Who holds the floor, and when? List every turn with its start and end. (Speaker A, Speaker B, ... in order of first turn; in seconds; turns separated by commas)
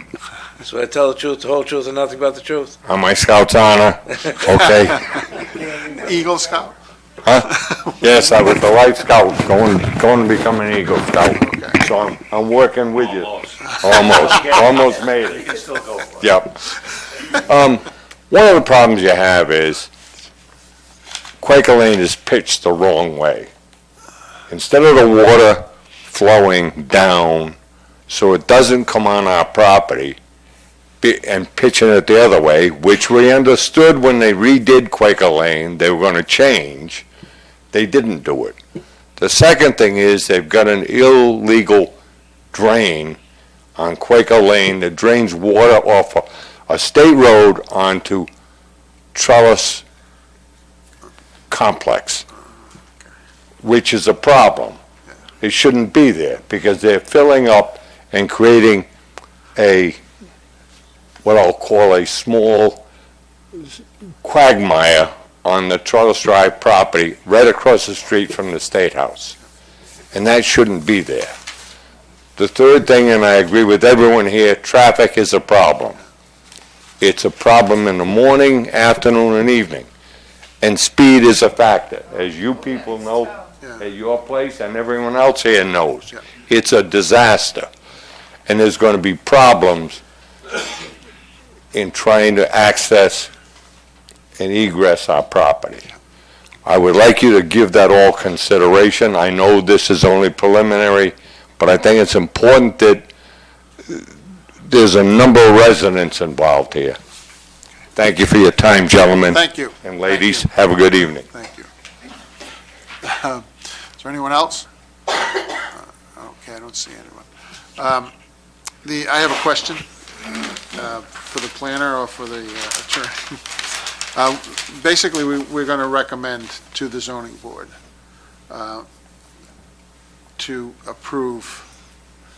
Speaker A: 0.6-2.8, Speaker B: 2.9-5.2, Speaker C: 6.0-6.7, Speaker B: 7.2-15.6, Speaker C: 11.4-11.8, Speaker D: 13.1-16.2, Speaker B: 16.2-16.8, Speaker B: 17.3-19.9, Speaker B: 21.4-23.5, Speaker B: 24.5-27.6, Speaker B: 28.1-30.2, Speaker B: 31.0-37.1, Speaker B: 37.7-38.6, Speaker B: 39.2-41.9, Speaker B: 42.5-43.2, Speaker B: 43.8-48.3, Speaker B: 49.1-49.8, Speaker B: 51.5-52.2, Speaker B: 53.6-54.8, Speaker B: 55.4-58.9, Speaker B: 59.6-60.0, Speaker B: 61.2-62.8, Speaker B: 63.6-69.4, Speaker B: 70.1-71.3, Speaker B: 72.4-76.0, Speaker B: 77.0-79.9, Speaker B: 80.6-87.7, Speaker B: 88.5-90.0, Speaker B: 91.7-93.3, Speaker B: 94.4-95.9, Speaker B: 96.7-103.1, Speaker B: 103.8-104.1, Speaker B: 104.6-107.0, Speaker B: 108.0-111.3, Speaker C: 109.3-110.4, Speaker C: 111.3-111.7, Speaker C: 113.0-113.5, Speaker C: 114.0-114.7, Speaker C: 115.6-118.1, Speaker C: 118.8-123.4, Speaker C: 124.1-127.7, Speaker C: 128.5-128.8, Speaker C: 130.4-131.7